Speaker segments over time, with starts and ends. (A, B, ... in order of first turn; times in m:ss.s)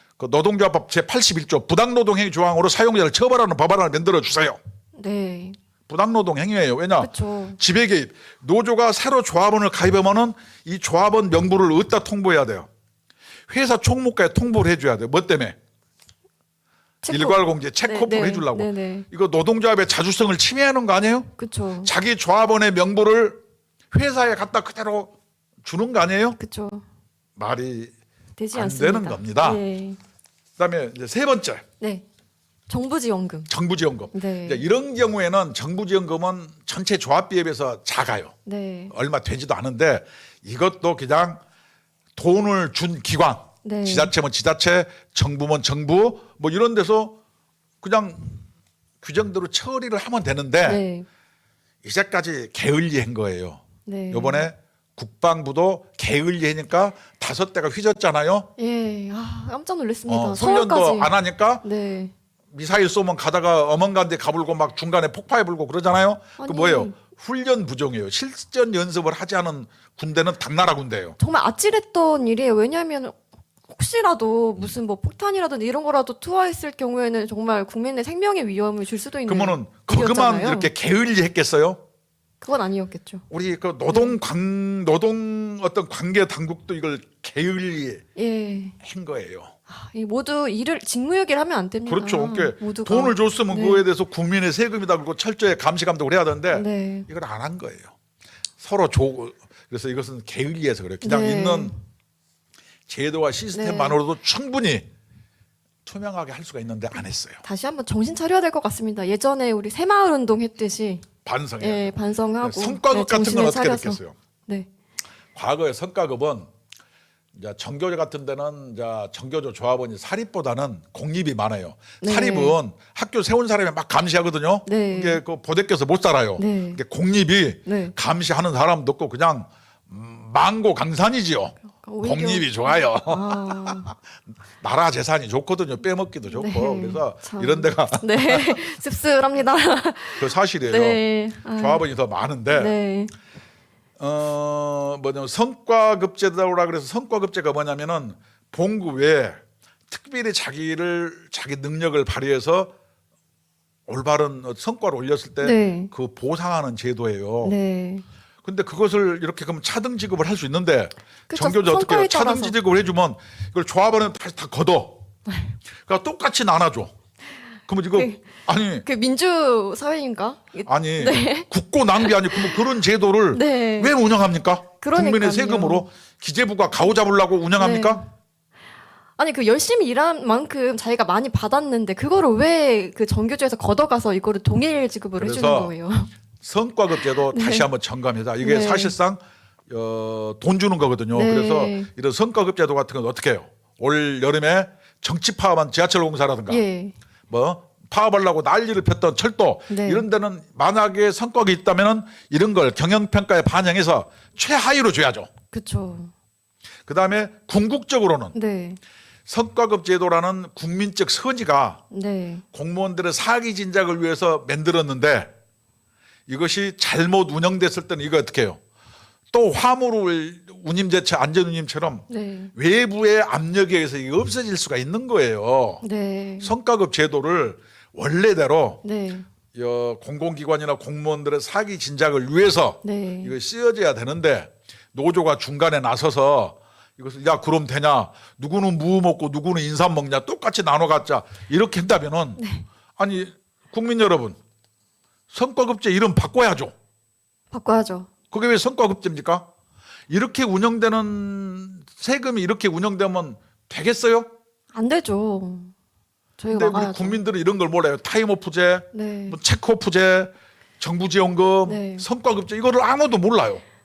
0:00.2-0:04.6 A
0:04.9-0:05.6 B
0:05.9-0:12.7 A
0:07.0-0:07.6 B
0:13.5-0:15.6 A
0:17.0-0:19.1 B
0:17.1-0:21.3 A
0:21.4-0:21.9 B
0:21.8-0:23.4 A
0:23.9-0:25.1 A
0:25.6-0:26.4 A
0:26.4-0:26.8 B
0:27.4-0:27.9 A
0:28.4-0:30.0 B
0:28.5-0:29.6 A
0:30.6-0:31.6 A
0:32.7-0:33.5 B
0:33.5-0:38.3 A
0:34.1-0:34.6 B
0:38.4-0:38.9 B
0:38.9-0:41.4 A
0:42.2-0:47.2 A
0:43.6-0:44.1 B
0:47.8-0:48.4 A
0:49.0-0:50.8 A
0:50.6-0:51.0 B
0:51.8-0:58.5 A
0:53.8-0:54.5 B
0:58.6-1:02.1 B
1:00.1-1:01.6 A
1:02.5-1:11.2 A
1:06.4-1:06.9 B
1:11.2-1:20.7 B
1:19.3-1:21.8 A
1:22.4-1:23.2 B
1:23.3-1:28.0 A
1:23.9-1:24.2 B
1:28.2-1:28.8 B
1:28.8-1:29.5 A
1:29.7-1:33.8 B
1:31.9-1:37.9 A
1:36.5-1:37.1 B
1:38.6-1:41.7 A
1:41.0-1:41.8 B
1:42.9-1:44.8 A
1:43.5-1:44.0 B
1:45.8-1:47.4 A
1:47.4-1:51.0 B
1:51.2-1:54.2 A
1:51.6-1:54.7 B
1:55.3-1:56.5 A
1:57.3-2:13.9 A
2:02.0-2:02.6 B
2:04.6-2:05.2 B
2:06.4-2:06.8 B
2:07.6-2:07.9 B
2:11.8-2:13.9 B
2:14.6-2:18.6 A
2:16.3-2:21.8 B
2:20.2-2:21.0 A
2:21.5-2:22.7 A
2:22.5-2:23.1 B
2:24.0-2:32.7 A
2:33.9-2:37.6 A
2:35.4-2:35.9 B
2:37.4-2:38.0 B
2:38.4-2:45.0 A
2:41.3-2:42.5 B
2:45.3-2:45.6 B
2:45.8-2:46.9 A
2:47.7-2:48.8 A
2:47.9-2:48.2 B
2:48.8-2:52.7 B
2:50.6-2:58.0 A
2:53.3-2:53.9 B
2:54.8-2:55.8 B
2:57.6-2:58.1 B
2:59.2-3:06.1 B
3:05.2-3:05.7 A
3:06.4-3:16.6 A
3:06.9-3:07.7 B
3:08.4-3:08.9 B
3:11.1-3:11.9 B
3:16.5-3:16.9 B
3:17.3-3:25.3 A
3:19.7-3:20.0 B
3:25.5-3:26.1 B
3:26.9-3:28.3 A
3:28.3-3:28.8 B
3:29.3-3:31.8 A
3:31.9-3:32.4 B
3:32.5-3:35.3 A
3:36.3-3:38.6 A
3:39.3-3:45.8 A
3:42.1-3:42.5 B
3:45.8-3:46.5 B
3:46.4-3:48.8 A
3:48.8-3:49.3 B
3:49.5-4:02.4 A
3:52.8-3:53.3 B
4:02.4-4:02.6 B
4:03.0-4:04.4 A
4:05.3-4:06.7 A
4:07.5-4:08.1 B
4:08.3-4:09.5 A
4:10.1-4:14.3 A
4:14.7-4:15.7 B
4:16.4-4:17.2 B
4:16.5-4:23.6 A
4:18.9-4:19.4 B
4:21.6-4:22.0 B